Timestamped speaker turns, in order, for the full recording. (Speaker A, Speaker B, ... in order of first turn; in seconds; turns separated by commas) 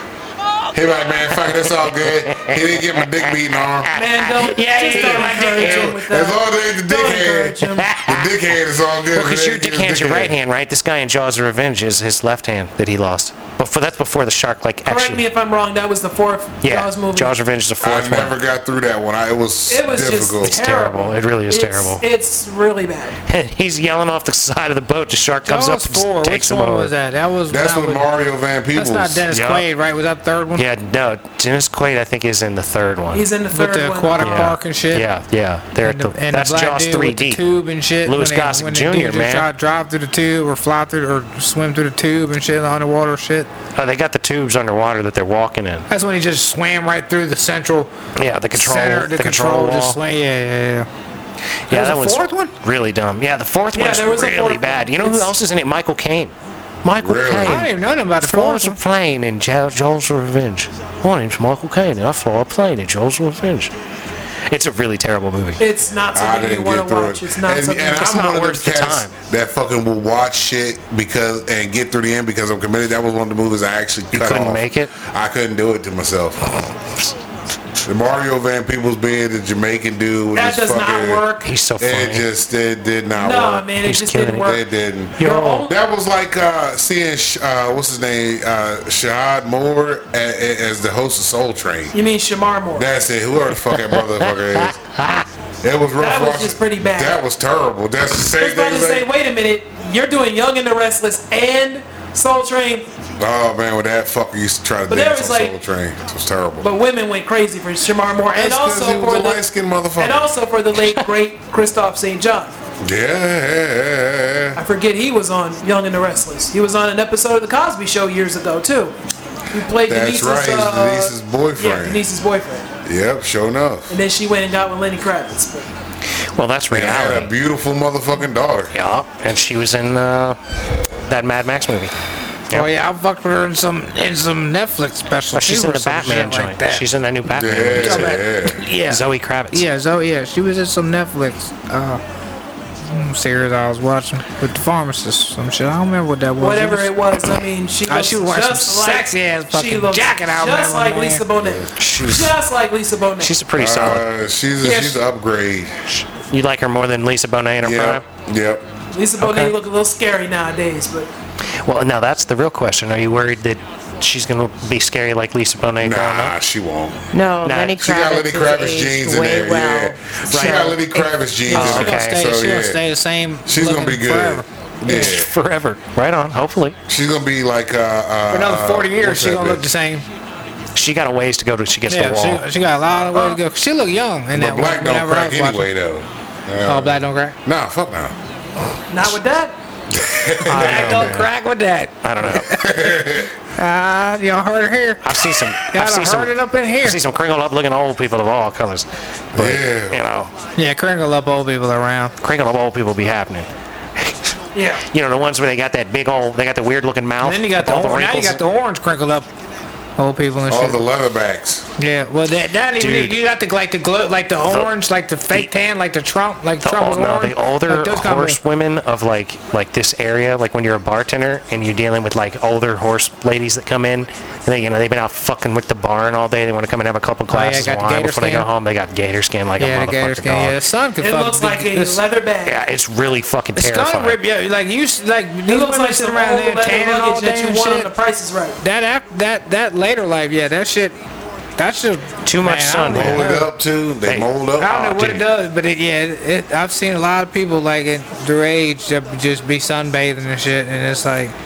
Speaker A: 0.7-3.9, Speaker B: 1.4-6.0, Speaker C: 3.9-7.9, Speaker A: 5.2-10.3, Speaker B: 7.8-8.4, Speaker B: 9.1-15.2, Speaker C: 14.9-17.3, Speaker B: 16.6-18.3, Speaker A: 17.8-20.6, Speaker C: 19.7-23.2, Speaker B: 20.4-22.0, Speaker B: 23.3-26.9, Speaker D: 25.4-28.1, Speaker A: 27.5-29.3, Speaker D: 28.7-30.6, Speaker B: 29.3-29.6, Speaker B: 30.5-33.2, Speaker C: 33.1-34.5, Speaker D: 33.5-35.1, Speaker B: 34.2-37.4, Speaker D: 35.8-43.5, Speaker B: 38.0-39.5, Speaker B: 43.8-45.9, Speaker D: 45.9-47.9, Speaker B: 48.2-50.0, Speaker D: 48.5-50.9, Speaker B: 51.7-63.7, Speaker D: 51.7-52.5, Speaker C: 53.7-55.3, Speaker A: 57.0-57.6, Speaker D: 57.5-58.8, Speaker B: 64.5-65.6, Speaker C: 65.6-68.1, Speaker A: 66.1-76.5, Speaker B: 67.9-69.1, Speaker B: 74.1-74.9, Speaker A: 77.8-81.2, Speaker C: 80.3-81.5, Speaker B: 81.4-82.3, Speaker A: 81.8-83.7, Speaker C: 83.1-84.6, Speaker B: 83.8-84.5, Speaker A: 84.4-91.9, Speaker B: 85.2-85.7, Speaker C: 85.2-85.8, Speaker C: 91.9-92.9, Speaker A: 92.8-94.8, Speaker B: 93.7-95.2, Speaker A: 95.6-99.1, Speaker C: 96.0-97.2, Speaker C: 98.4-102.9, Speaker A: 103.2-106.7, Speaker C: 104.9-105.5, Speaker C: 106.6-109.4, Speaker A: 108.3-110.3, Speaker C: 110.0-112.5, Speaker A: 112.8-114.6, Speaker C: 114.5-118.9, Speaker C: 119.5-122.7, Speaker A: 119.9-122.0, Speaker A: 122.8-123.9, Speaker C: 123.9-125.7, Speaker B: 126.3-127.3, Speaker A: 126.7-128.7, Speaker B: 128.7-130.4, Speaker B: 131.1-131.9, Speaker D: 132.5-136.8, Speaker B: 135.3-139.6, Speaker A: 137.3-138.6, Speaker D: 137.8-142.0, Speaker D: 142.9-146.9, Speaker C: 146.4-153.3, Speaker D: 147.9-151.2, Speaker B: 151.8-152.3, Speaker B: 153.2-154.1, Speaker A: 153.6-155.8, Speaker D: 154.6-155.0, Speaker B: 156.2-158.0, Speaker A: 157.6-158.6, Speaker C: 158.9-161.1, Speaker B: 159.2-159.5, Speaker B: 161.6-166.3, Speaker A: 165.8-167.1, Speaker E: 167.1-170.8, Speaker B: 167.4-167.8, Speaker A: 167.8-172.8, Speaker B: 170.3-170.8, Speaker D: 171.5-174.4, Speaker B: 171.5-172.3, Speaker A: 173.4-175.3, Speaker B: 174.8-176.8, Speaker A: 176.9-179.7, Speaker D: 178.3-180.0, Speaker B: 180.7-182.4, Speaker D: 181.9-185.7, Speaker A: 184.3-188.1, Speaker D: 186.7-187.3, Speaker C: 188.9-189.5, Speaker A: 189.9-191.2, Speaker B: 190.5-191.3, Speaker D: 190.5-192.8, Speaker B: 192.0-192.5, Speaker A: 192.4-193.3, Speaker D: 193.6-197.0, Speaker B: 195.0-200.3, Speaker A: 199.3-200.0, Speaker D: 200.6-202.1, Speaker B: 202.2-203.5, Speaker C: 204.5-204.8, Speaker B: 204.9-208.4, Speaker D: 207.2-209.3, Speaker D: 210.0-210.8, Speaker A: 210.5-211.7, Speaker D: 211.8-218.4, Speaker B: 212.8-213.2, Speaker B: 214.4-214.7, Speaker B: 216.6-230.6, Speaker D: 227.3-228.5, Speaker D: 229.6-232.0, Speaker C: 231.0-232.6, Speaker B: 232.4-234.2, Speaker D: 233.6-237.9, Speaker C: 235.5-238.6, Speaker D: 238.6-240.9, Speaker D: 241.6-243.5, Speaker B: 242.2-243.4, Speaker A: 242.9-244.8, Speaker B: 244.1-245.2, Speaker D: 244.6-251.3